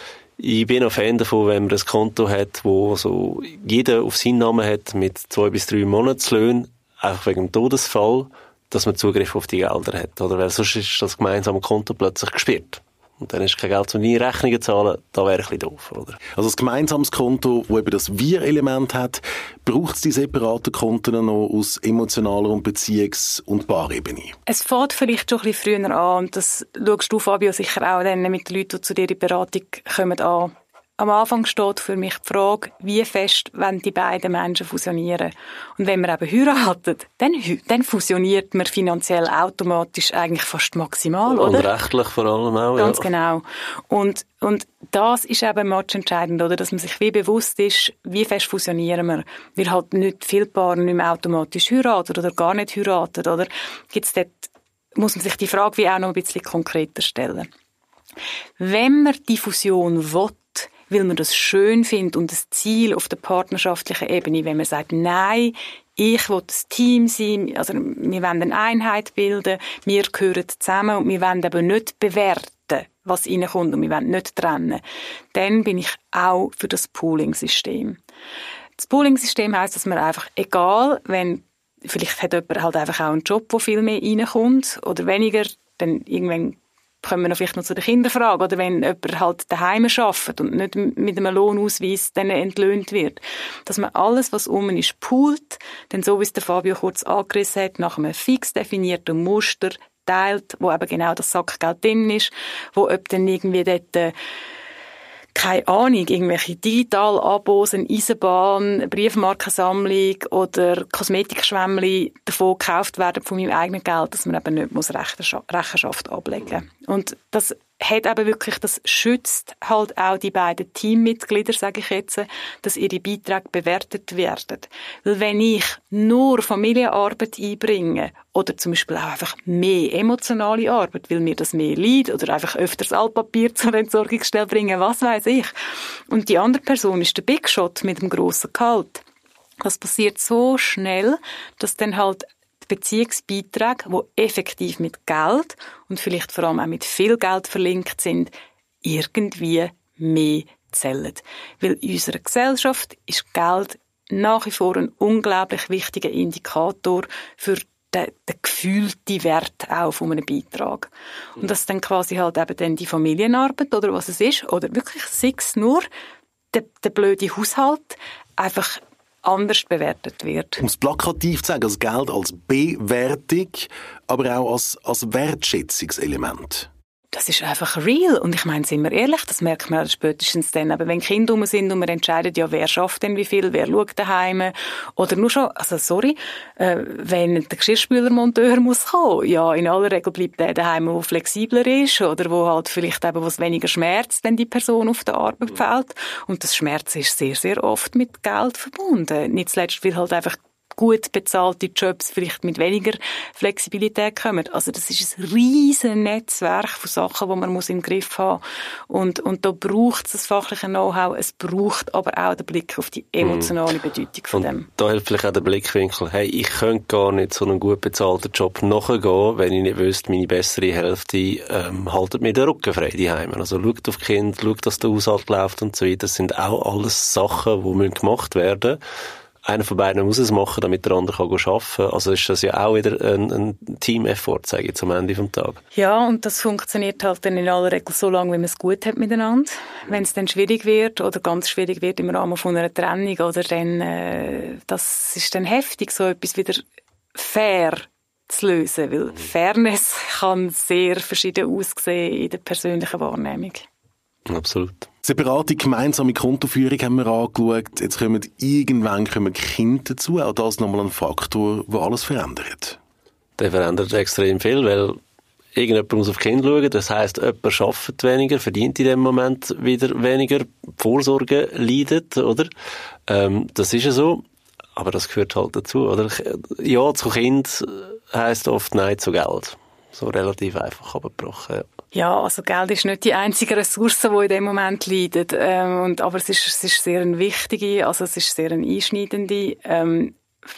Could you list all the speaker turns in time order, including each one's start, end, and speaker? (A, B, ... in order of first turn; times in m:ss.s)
0:00.4-0:16.2 A
0:16.4-0:24.4 B
0:24.5-0:41.7 C
0:41.3-0:43.1 A
0:42.8-0:57.5 C
0:58.6-1:14.8 C
1:15.3-1:18.0 C
1:18.8-1:44.1 C
1:45.3-2:15.5 C
2:16.1-2:19.0 C
2:19.6-2:28.3 C
2:28.8-2:45.9 C
2:46.5-2:50.6 C
2:50.6-2:56.7 B
2:57.1-3:34.7 C
3:33.2-3:33.6 A
3:34.3-3:48.8 A
3:49.4-3:55.6 A
3:55.8-4:06.6 C
4:07.2-4:13.7 C
4:14.3-4:14.9 A
4:15.0-4:22.8 B
4:23.4-4:25.0 A
4:25.6-4:32.5 A
4:33.1-4:34.2 A
4:34.8-4:41.7 A
4:41.9-4:50.2 C